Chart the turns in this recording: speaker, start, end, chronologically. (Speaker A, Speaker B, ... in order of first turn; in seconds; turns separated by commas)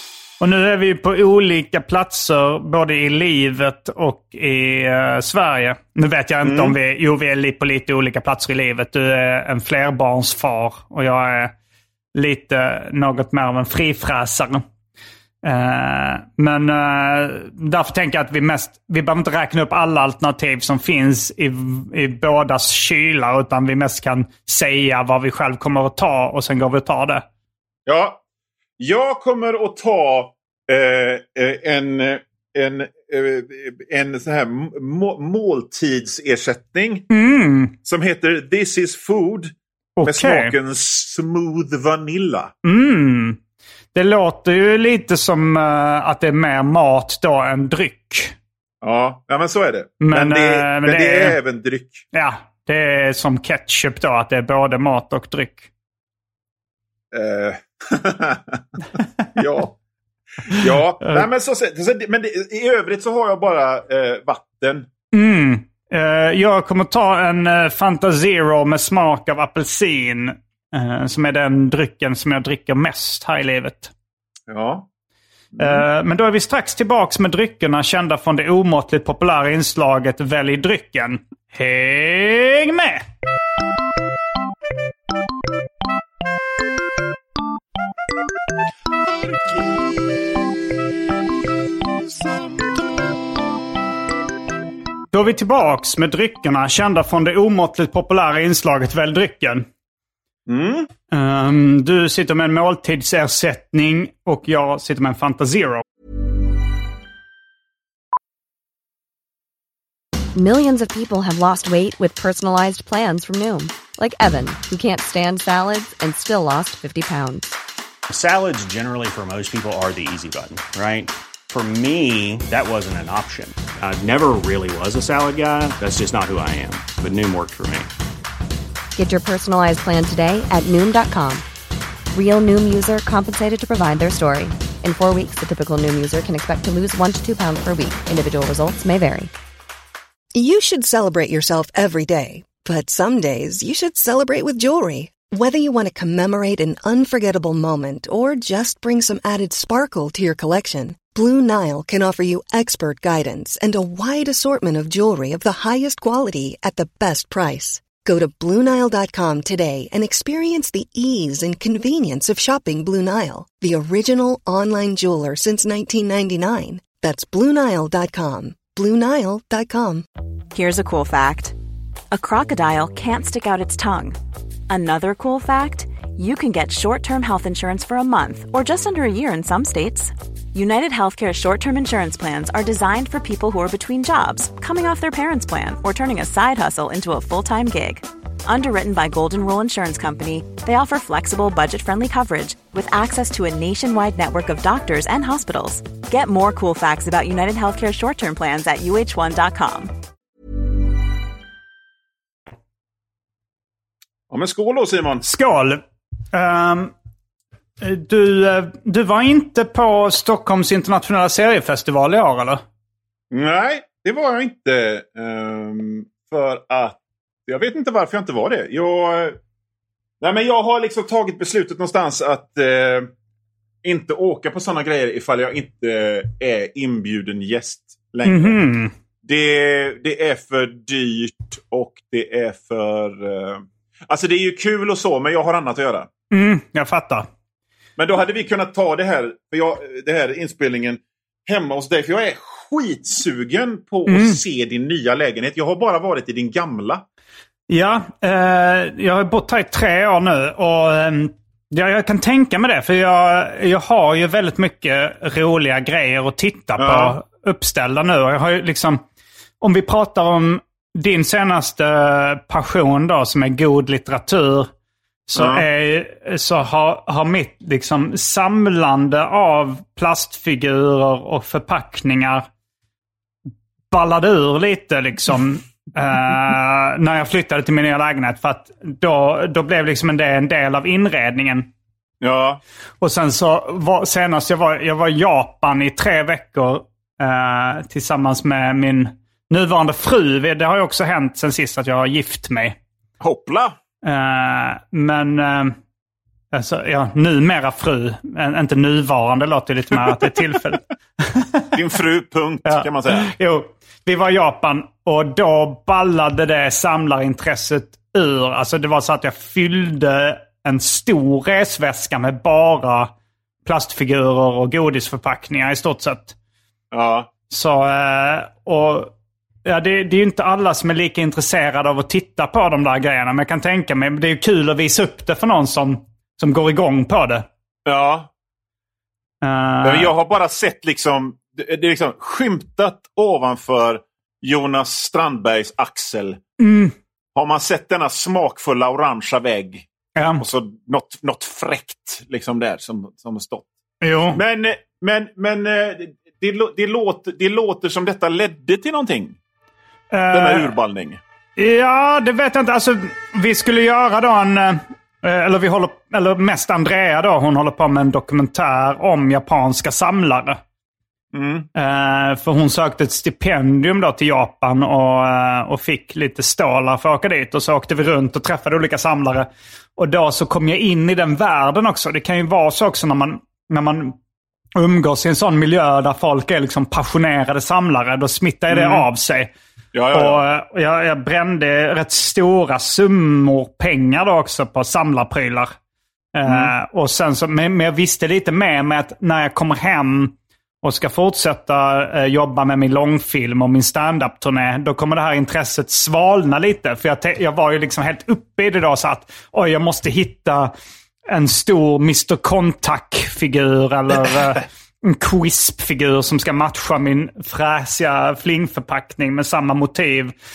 Speaker A: 0.4-11.5, Speaker B: 6.4-6.8, Speaker A: 12.1-14.6, Speaker A: 15.4-27.2, Speaker B: 27.9-28.2, Speaker B: 28.8-37.1, Speaker A: 37.1-37.7, Speaker B: 37.8-42.5, Speaker A: 40.0-40.5, Speaker A: 42.6-43.4, Speaker A: 43.9-48.3, Speaker B: 48.8-52.0, Speaker A: 50.0-51.4, Speaker A: 52.1-55.7, Speaker B: 57.1-59.8, Speaker B: 60.5-64.9, Speaker A: 65.1-73.9, Speaker B: 74.5-74.9, Speaker B: 75.5-75.8, Speaker A: 75.6-83.0, Speaker B: 89.1-89.8, Speaker B: 92.0-92.8, Speaker A: 95.1-99.7, Speaker B: 100.5-100.9, Speaker A: 101.1-105.8, Speaker C: 110.3-117.5, Speaker D: 118.1-127.9, Speaker C: 128.9-131.4, Speaker C: 132.1-139.3, Speaker E: 140.3-170.0, Speaker F: 170.5-171.5, Speaker F: 172.1-174.2, Speaker F: 174.7-199.9, Speaker B: 204.3-205.2, Speaker A: 205.2-206.9, Speaker A: 207.8-212.6, Speaker B: 213.3-219.4, Speaker B: 220.2-223.1, Speaker B: 223.8-228.6, Speaker A: 228.2-228.9, Speaker B: 229.2-236.1, Speaker A: 236.3-237.3, Speaker B: 238.0-247.0, Speaker A: 244.1-244.4, Speaker A: 247.7-259.0, Speaker B: 256.8-257.2, Speaker A: 259.6-264.7, Speaker A: 265.3-272.4, Speaker B: 265.4-265.6, Speaker A: 273.9-281.7, Speaker B: 282.2-282.6, Speaker A: 283.0-292.8, Speaker B: 293.2-293.8, Speaker A: 294.0-295.7, Speaker A: 296.5-301.7, Speaker B: 301.7-303.3, Speaker A: 302.6-313.1, Speaker A: 313.6-316.4, Speaker B: 316.9-317.3, Speaker A: 317.5-319.1, Speaker A: 319.6-327.4, Speaker B: 327.9-328.3, Speaker A: 329.4-330.1, Speaker B: 329.8-336.4, Speaker A: 336.6-336.9, Speaker B: 337.3-343.7, Speaker A: 340.1-340.4, Speaker A: 344.0-344.4, Speaker B: 344.3-349.4, Speaker A: 350.1-350.7, Speaker B: 350.3-351.2, Speaker A: 351.6-360.6, Speaker B: 361.3-361.7, Speaker A: 361.7-374.1, Speaker A: 374.8-379.5, Speaker B: 378.7-379.1, Speaker B: 379.9-380.4, Speaker A: 380.1-385.7, Speaker A: 386.3-400.7, Speaker B: 386.4-386.7, Speaker A: 401.3-410.3